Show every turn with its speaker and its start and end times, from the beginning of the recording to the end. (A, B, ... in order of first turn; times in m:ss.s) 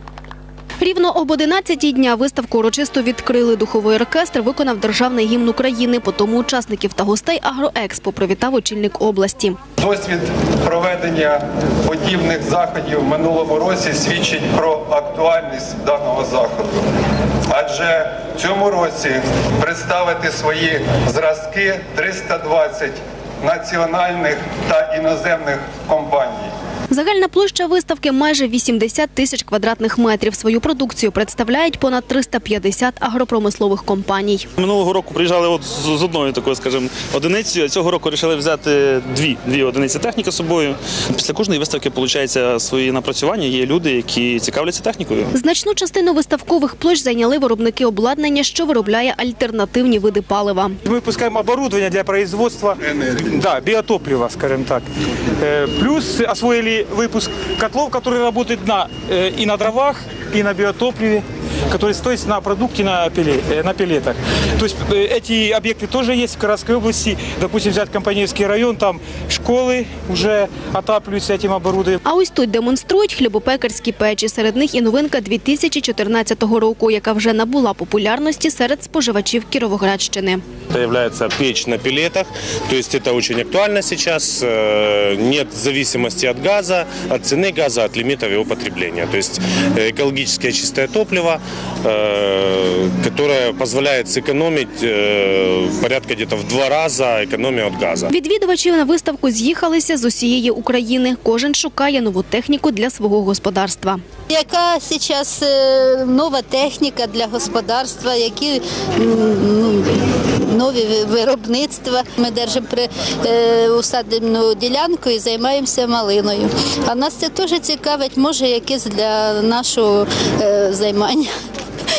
0:00.8-0:09.6 A
0:09.8-0:16.8 B
0:17.5-0:26.5 B
0:26.9-0:34.4 A
0:34.6-0:45.2 C
0:45.3-0:50.8 A
0:50.8-0:54.8 D
0:55.4-1:12.0 D
1:12.0-1:20.4 A
1:20.7-1:38.1 E
1:38.1-1:44.0 A
1:44.3-2:01.3 F